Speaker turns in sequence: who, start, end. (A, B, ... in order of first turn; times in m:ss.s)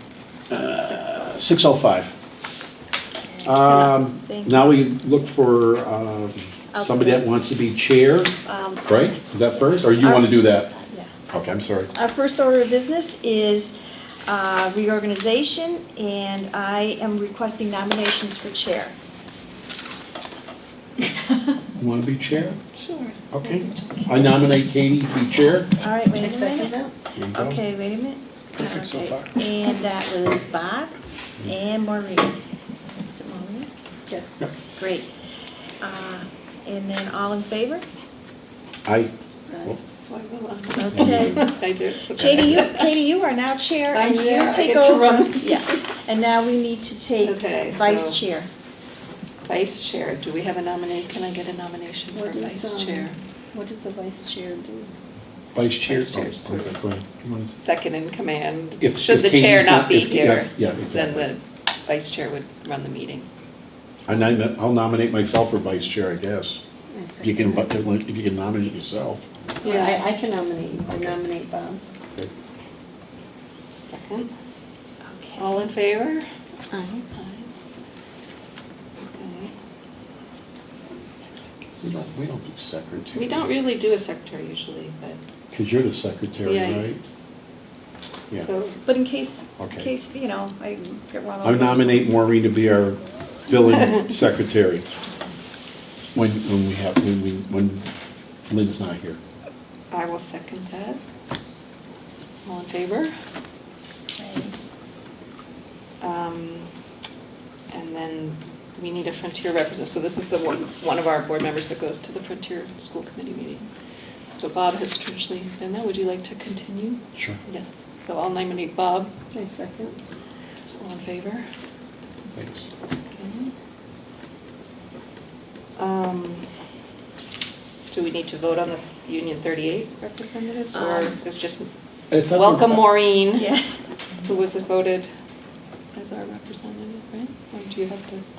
0:00.5-0:02.1 A
0:00.8-0:01.3 B
0:03.2-0:04.8 B
0:03.4-0:08.3 A
0:06.7-0:07.4 B
0:08.4-0:08.9 B
0:08.8-0:10.7 A
0:09.6-0:11.1 B
0:11.3-0:11.9 A
0:11.9-0:13.7 B
0:14.3-0:18.9 B
0:21.8-0:22.6 A
0:22.7-0:24.5 C
0:23.3-0:25.7 A
0:25.8-0:26.7 B
0:26.1-0:26.9 D
0:27.2-0:27.6 A
0:27.3-0:32.3 B
0:28.6-0:29.4 A
0:33.0-0:33.7 B
0:34.1-0:34.5 D
0:34.8-0:35.1 B
0:35.8-0:37.8 B
0:38.8-0:39.1 A
0:39.5-0:39.7 D
0:40.1-0:42.9 C
0:40.8-0:41.4 B
0:40.9-0:41.5 A
0:42.1-0:48.5 B
0:42.2-0:42.6 A
0:43.9-0:45.6 C
0:47.2-0:48.2 C
0:49.4-0:53.2 C
0:52.1-0:54.9 D
0:55.5-0:57.5 A
0:55.8-0:56.8 C
0:57.5-1:03.3 C
0:58.8-1:01.3 A
1:04.0-1:04.3 C
1:04.1-1:06.6 A
1:06.9-1:07.7 D
1:07.2-1:09.3 A
1:09.6-1:10.0 C
1:09.6-1:11.8 D
1:10.8-1:11.2 A
1:13.8-1:14.3 C
1:15.0-1:15.7 B
1:15.4-1:16.2 C
1:16.7-1:17.0 D
1:17.1-1:17.5 C
1:19.0-1:19.5 C
1:21.8-1:23.5 A
1:23.1-1:25.2 C
1:25.5-1:27.0 A
1:26.4-1:26.9 C
1:28.4-1:28.8 C
1:28.8-1:32.1 B
1:29.6-1:29.9 A
1:31.4-1:34.8 A
1:36.1-1:37.9 A
1:38.5-1:39.2 A
1:39.9-1:41.0 C
1:42.4-1:43.1 C
1:44.2-1:44.5 B
1:46.0-1:46.7 C
1:47.7-1:53.7 C
1:54.4-1:59.1 C
1:59.3-2:00.0 D
2:00.8-2:01.4 C
2:02.3-2:02.7 A
2:03.1-2:03.5 C
2:05.8-2:06.4 C
2:07.9-2:11.7 C
2:10.7-2:11.1 B
2:12.1-2:13.0 A
2:12.3-2:13.5 C
2:13.4-2:13.8 B
2:14.2-2:15.1 C
2:15.9-2:18.2 C